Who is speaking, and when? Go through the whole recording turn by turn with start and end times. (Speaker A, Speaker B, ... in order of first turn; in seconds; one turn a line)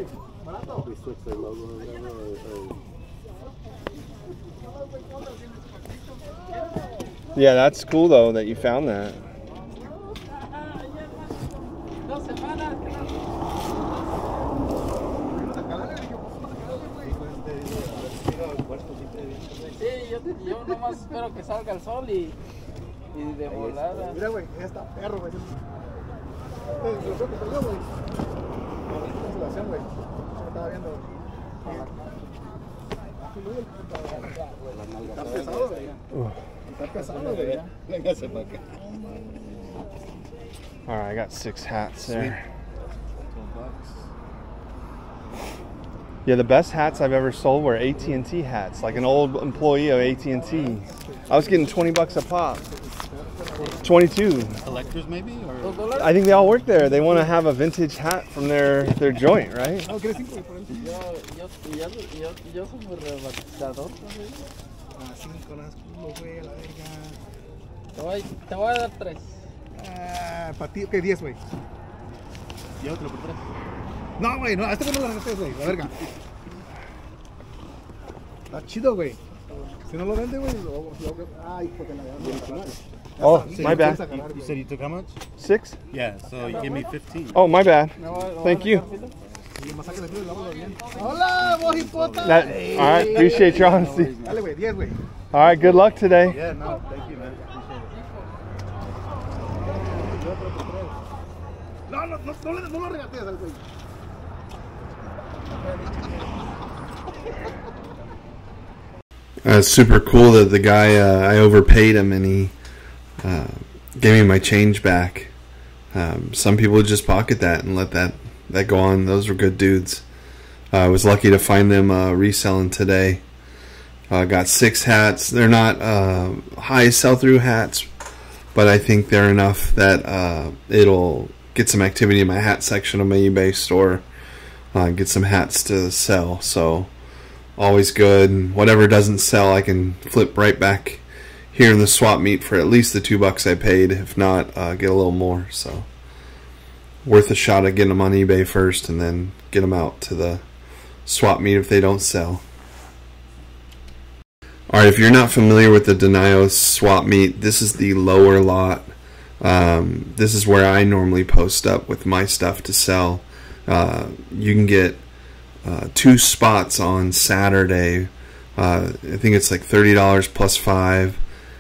Speaker A: 0.7-2.8
Speaker B: 7.3-9.2
Speaker C: 12.1-13.2
Speaker D: 15.2-17.1
Speaker A: 17.0-19.7
Speaker C: 19.7-22.4
Speaker C: 23.1-24.2
Speaker A: 23.4-24.2
Speaker D: 24.1-25.6
Speaker D: 26.8-27.9
Speaker D: 28.9-31.1
Speaker D: 33.2-34.3
Speaker A: 34.6-36.0
Speaker D: 35.1-35.9
Speaker D: 36.7-37.7
Speaker A: 36.8-38.7
Speaker B: 40.9-42.4
Speaker A: 42.0-42.4
Speaker A: 43.1-44.0
Speaker B: 46.2-52.6
Speaker D: 50.5-53.9
Speaker B: 53.8-54.6
Speaker A: 54.6-56.0
Speaker C: 55.6-56.2
Speaker B: 56.0-59.9
Speaker D: 59.8-61.0
Speaker C: 60.7-64.5
Speaker D: 65.0-67.2
Speaker C: 67.9-69.3
Speaker D: 69.7-71.4
Speaker A: 72.8-73.4
Speaker D: 74.2-76.1
Speaker D: 78.5-79.2
Speaker D: 79.8-84.6
Speaker A: 82.2-82.8
Speaker B: 83.2-84.0
Speaker A: 83.3-85.2
Speaker B: 85.4-85.8
Speaker A: 85.9-87.5
Speaker B: 87.3-88.8
Speaker C: 88.0-89.1
Speaker D: 89.6-95.0
Speaker A: 91.0-94.5
Speaker B: 92.2-94.1
Speaker B: 95.3-96.4
Speaker A: 96.2-97.5
Speaker D: 101.9-103.6
Speaker E: 109.5-112.5
Speaker E: 113.2-115.3
Speaker E: 115.9-120.0
Speaker E: 120.7-123.2
Speaker E: 124.1-127.9
Speaker E: 128.5-134.0
Speaker E: 134.7-136.9
Speaker E: 137.6-145.9
Speaker E: 147.1-150.4
Speaker E: 151.1-152.4
Speaker E: 154.7-158.9
Speaker E: 159.4-165.0
Speaker E: 165.6-171.2